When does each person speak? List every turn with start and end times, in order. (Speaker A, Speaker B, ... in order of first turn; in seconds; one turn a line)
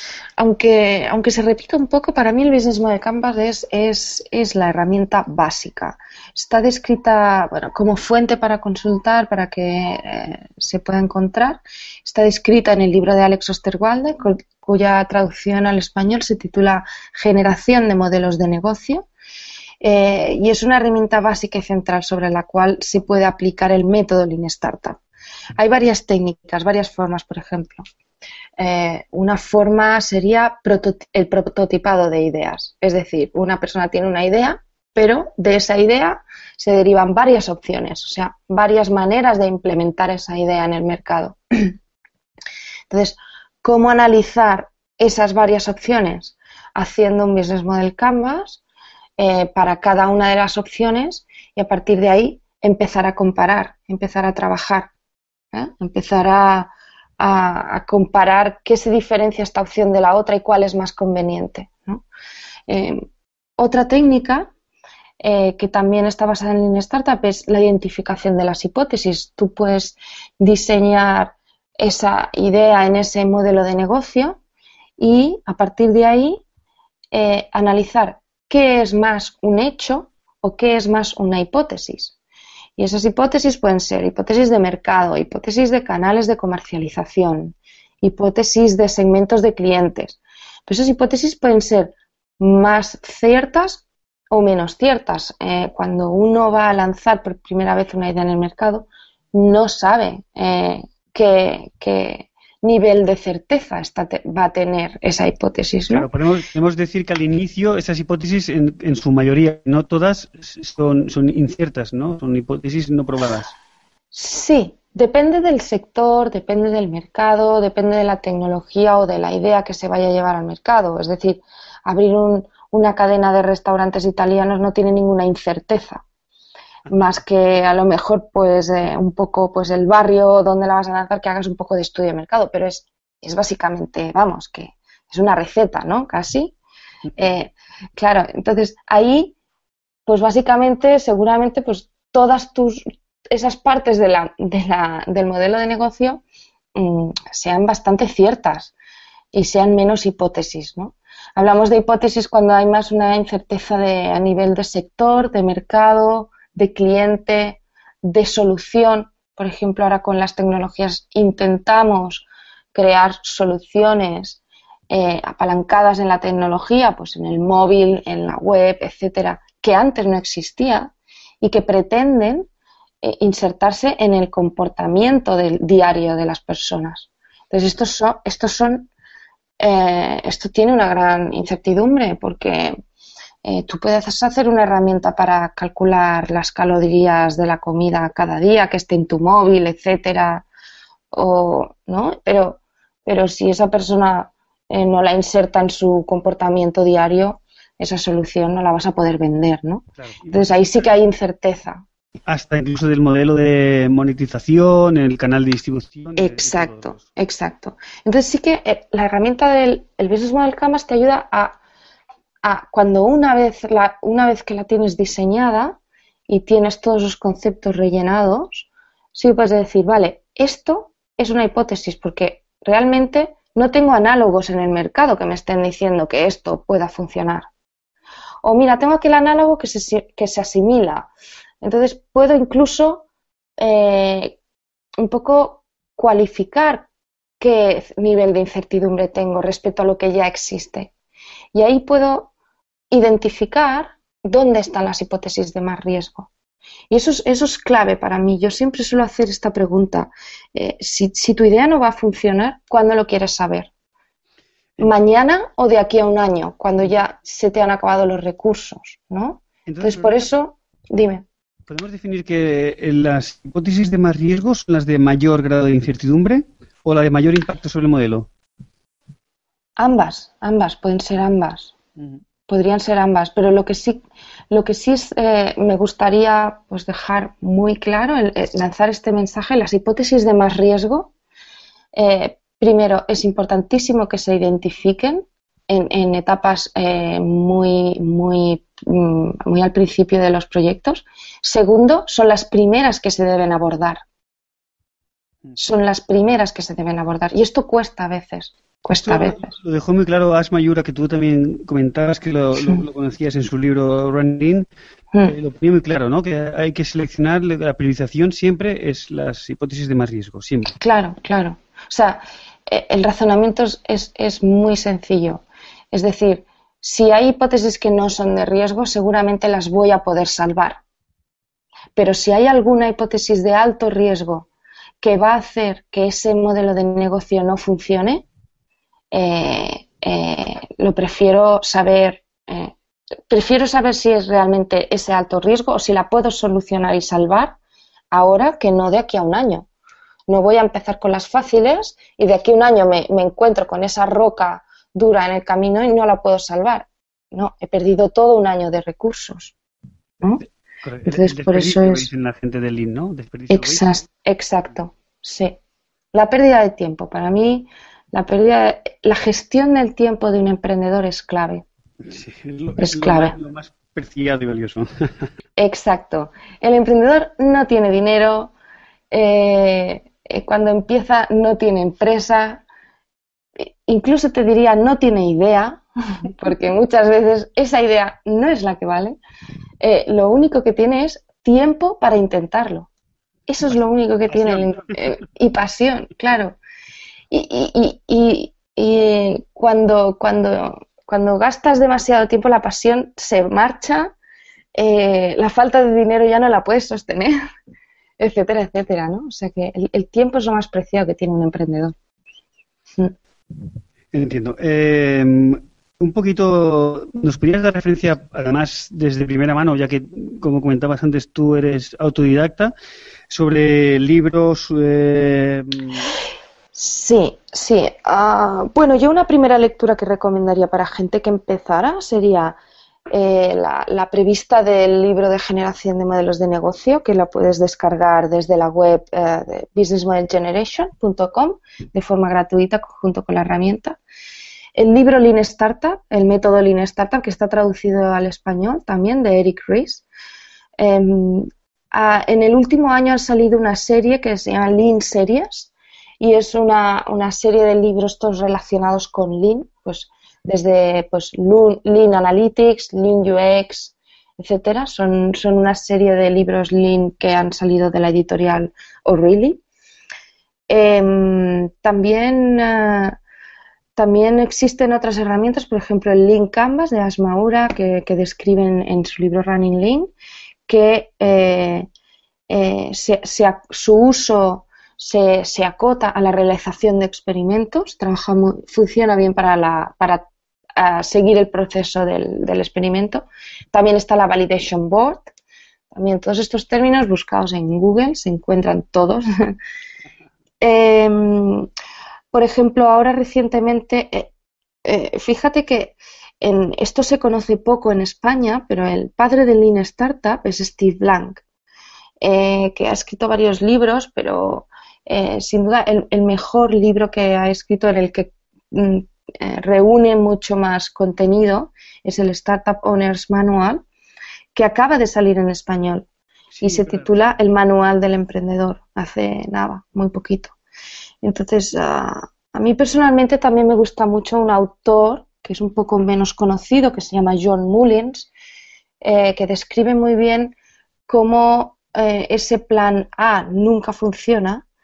Speaker A: 0.4-19.0
Speaker A: 19.8-25.0
Speaker A: 25.6-27.8
Speaker A: 28.6-41.7
Speaker A: 42.9-48.6
Speaker A: 49.2-54.9
Speaker A: 55.5-62.0
Speaker A: 62.7-63.0
Speaker A: 63.6-64.5
Speaker A: 65.2-74.4
Speaker A: 75.0-76.4
Speaker A: 77.1-82.1
Speaker A: 82.8-106.1
Speaker B: 105.9-113.5
Speaker A: 114.1-126.0
Speaker A: 126.9-136.5
Speaker A: 137.2-139.3
Speaker A: 140.1-146.2
Speaker A: 146.8-148.7
Speaker A: 149.3-164.4
Speaker A: 164.9-170.9
Speaker A: 171.4-172.5
Speaker A: 173.0-178.9
Speaker A: 179.6-182.8
Speaker A: 183.4-190.4
Speaker A: 191.1-201.8
Speaker B: 200.0-200.5
Speaker B: 202.3-207.0
Speaker A: 206.2-211.6
Speaker A: 212.4-215.8
Speaker A: 216.3-227.5
Speaker A: 228.4-231.1
Speaker A: 231.6-233.0
Speaker A: 233.6-234.3
Speaker A: 235.0-236.9
Speaker A: 237.4-240.9
Speaker A: 241.5-242.3
Speaker A: 242.9-246.3
Speaker A: 246.9-253.7
Speaker A: 254.8-261.2
Speaker B: 259.7-260.2
Speaker B: 261.7-268.3
Speaker A: 269.8-271.7
Speaker A: 272.5-281.1
Speaker A: 281.9-294.0
Speaker A: 295.6-299.5
Speaker B: 299.0-304.7
Speaker B: 305.3-310.8
Speaker A: 310.8-320.8
Speaker A: 321.9-324.5
Speaker A: 325.0-328.2
Speaker A: 329.1-332.7
Speaker A: 333.3-337.6
Speaker A: 338.1-339.7
Speaker A: 340.3-349.5
Speaker B: 350.8-354.0
Speaker A: 351.1-352.1
Speaker A: 353.5-355.6
Speaker A: 356.1-361.6
Speaker B: 362.0-365.1
Speaker A: 362.8-363.4
Speaker A: 365.6-368.5
Speaker A: 369.1-372.6
Speaker A: 373.9-379.2
Speaker A: 379.8-382.9
Speaker A: 383.5-386.6
Speaker B: 384.3-384.8
Speaker A: 387.3-394.1
Speaker A: 394.7-397.4
Speaker A: 398.2-401.9
Speaker B: 404.1-412.7
Speaker B: 413.3-416.1
Speaker A: 416.7-422.6
Speaker A: 423.1-434.0
Speaker A: 434.8-440.0
Speaker A: 440.8-459.6
Speaker A: 460.7-463.2
Speaker A: 463.9-470.1
Speaker A: 470.7-471.9
Speaker A: 472.5-480.2
Speaker A: 480.8-485.3
Speaker A: 485.9-489.6
Speaker A: 490.6-491.7
Speaker A: 492.3-494.3
Speaker A: 494.8-501.4
Speaker A: 502.2-513.8
Speaker A: 514.5-516.0
Speaker B: 516.6-517.1
Speaker A: 516.6-520.5
Speaker A: 521.2-528.3
Speaker A: 529.0-530.5
Speaker A: 531.1-534.6